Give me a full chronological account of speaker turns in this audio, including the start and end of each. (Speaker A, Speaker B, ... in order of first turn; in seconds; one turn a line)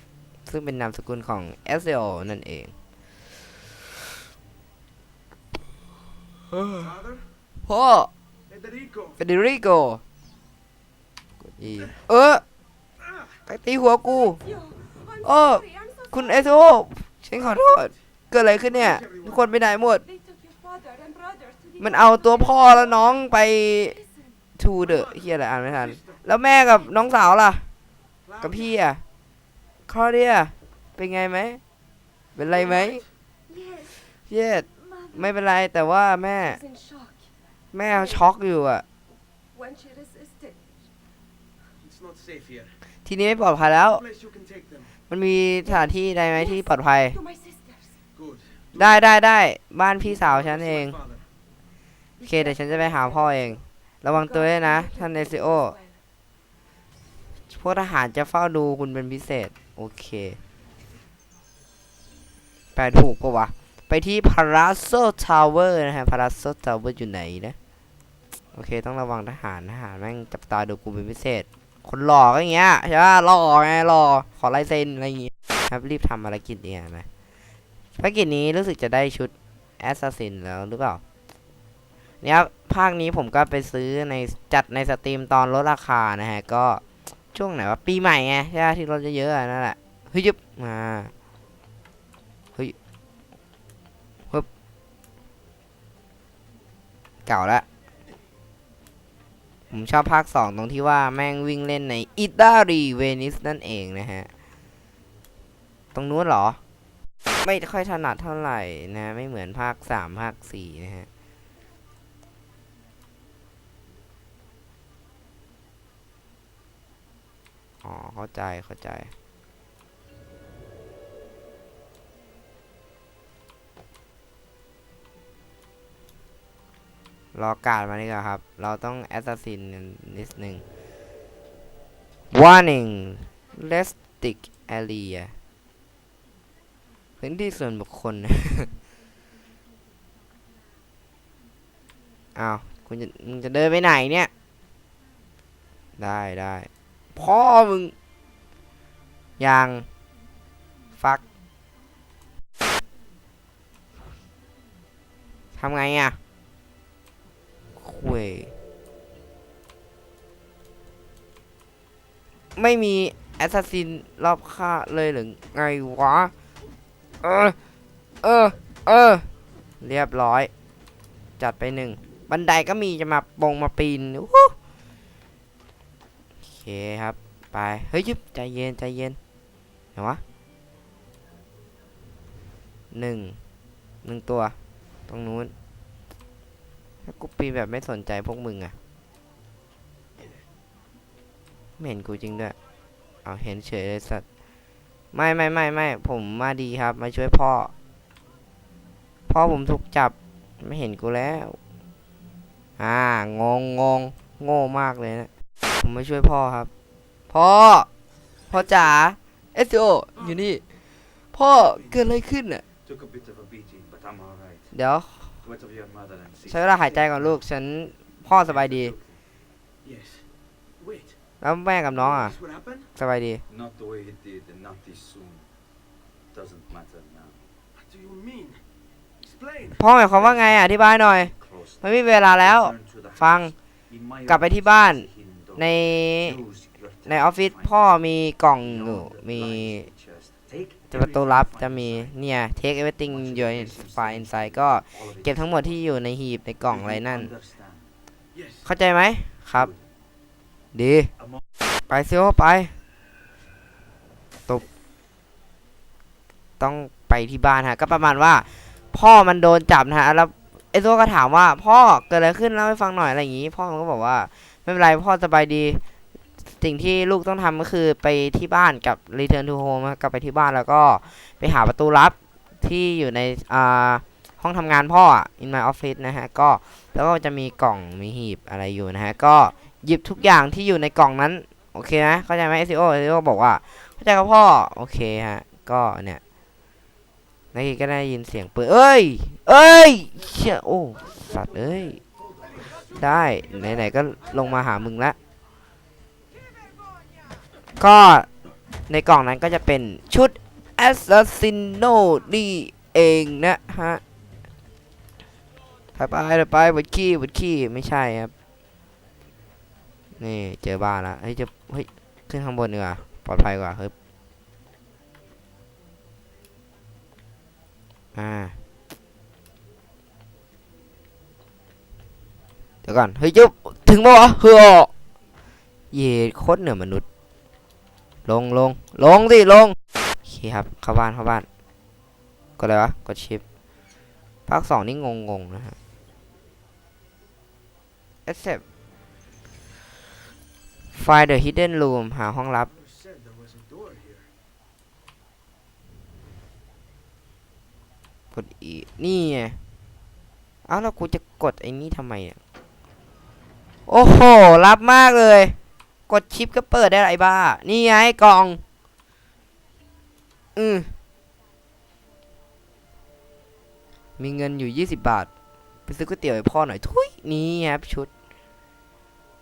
Speaker A: 0.5-2.7
Speaker A: 6.5-6.9
Speaker B: 6.8-7.3
Speaker A: 7.7-8.1
Speaker B: 8.5-9.2
Speaker A: 9.2-10.0
Speaker A: 11.6-12.4
Speaker A: 13.5-14.4
Speaker C: 14.0-16.5
Speaker A: 15.2-20.0
Speaker B: 18.7-19.4
Speaker C: 20.0-24.4
Speaker A: 21.8-23.9
Speaker A: 24.6-27.6
Speaker B: 24.8-26.2
Speaker B: 28.2-28.6
Speaker A: 28.4-29.0
Speaker A: 29.9-31.6
Speaker A: 32.4-33.0
Speaker C: 33.5-35.4
Speaker A: 34.3-36.6
Speaker C: 36.3-37.4
Speaker A: 37.7-38.9
Speaker C: 37.9-38.3
Speaker C: 39.5-40.9
Speaker B: 41.8-42.8
Speaker A: 43.0-44.0
Speaker B: 44.0-44.9
Speaker A: 45.1-47.2
Speaker C: 45.6-48.0
Speaker B: 48.2-49.0
Speaker A: 48.8-51.0
Speaker B: 50.0-51.2
Speaker C: 52.2-56.0
Speaker A: 52.3-55.7
Speaker A: 57.5-60.4
Speaker A: 62.8-67.6
Speaker A: 68.5-77.1
Speaker A: 78.0-81.0
Speaker A: 82.2-86.8
Speaker A: 87.3-91.1
Speaker A: 97.3-97.7
Speaker A: 99.7-104.3
Speaker A: 105.9-106.6
Speaker A: 107.4-111.1
Speaker A: 117.8-119.1
Speaker A: 127.3-130.6
Speaker A: 132.3-135.3
Speaker A: 137.2-138.7
Speaker A: 142.4-144.3
Speaker A: 146.0-147.9
Speaker A: 149.4-149.9
Speaker A: 155.6-156.2
Speaker A: 157.8-158.5
Speaker A: 162.6-166.3
Speaker A: 167.2-167.6
Speaker A: 168.2-169.3
Speaker A: 169.8-170.5
Speaker A: 171.4-174.6
Speaker A: 176.5-179.2
Speaker A: 180.0-180.2
Speaker A: 182.9-183.4
Speaker A: 184.0-184.6
Speaker A: 185.1-185.5
Speaker A: 187.1-188.8
Speaker A: 191.8-192.6
Speaker A: 193.2-194.2
Speaker A: 195.1-197.7
Speaker A: 199.3-201.6
Speaker A: 202.8-205.3
Speaker A: 205.8-206.7
Speaker A: 207.3-207.9
Speaker A: 208.5-210.6
Speaker A: 211.3-212.6
Speaker D: 212.9-214.6
Speaker A: 214.7-215.3
Speaker D: 215.4-216.8
Speaker A: 216.4-219.0
Speaker B: 219.8-220.3
Speaker B: 220.8-221.2
Speaker A: 221.4-222.3
Speaker B: 222.0-222.9
Speaker A: 223.0-223.4
Speaker D: 223.6-225.4
Speaker D: 226.4-227.3
Speaker B: 227.8-228.6
Speaker B: 229.2-229.8
Speaker A: 229.8-233.5
Speaker A: 234.3-236.4
Speaker A: 237.1-239.9
Speaker D: 239.0-241.0
Speaker A: 240.9-247.3
Speaker D: 247.4-247.8
Speaker B: 248.3-248.7
Speaker A: 248.6-249.7
Speaker A: 250.7-251.1
Speaker A: 251.9-252.7
Speaker A: 256.6-265.8
Speaker A: 266.5-286.2
Speaker A: 287.5-292.0
Speaker A: 292.7-295.2
Speaker A: 297.8-298.3
Speaker A: 298.9-304.0
Speaker A: 305.9-308.3
Speaker A: 310.2-313.9
Speaker A: 318.1-318.6
Speaker A: 322.8-324.9
Speaker A: 325.9-327.1
Speaker A: 328.3-331.5
Speaker A: 332.6-333.4
Speaker A: 334.5-335.8
Speaker A: 338.3-338.6
Speaker A: 340.9-342.7
Speaker B: 342.7-344.3
Speaker A: 348.3-349.6
Speaker A: 350.7-352.4
Speaker A: 353.9-355.6
Speaker A: 356.1-358.6
Speaker A: 360.6-360.9
Speaker A: 364.2-365.3
Speaker A: 365.9-368.1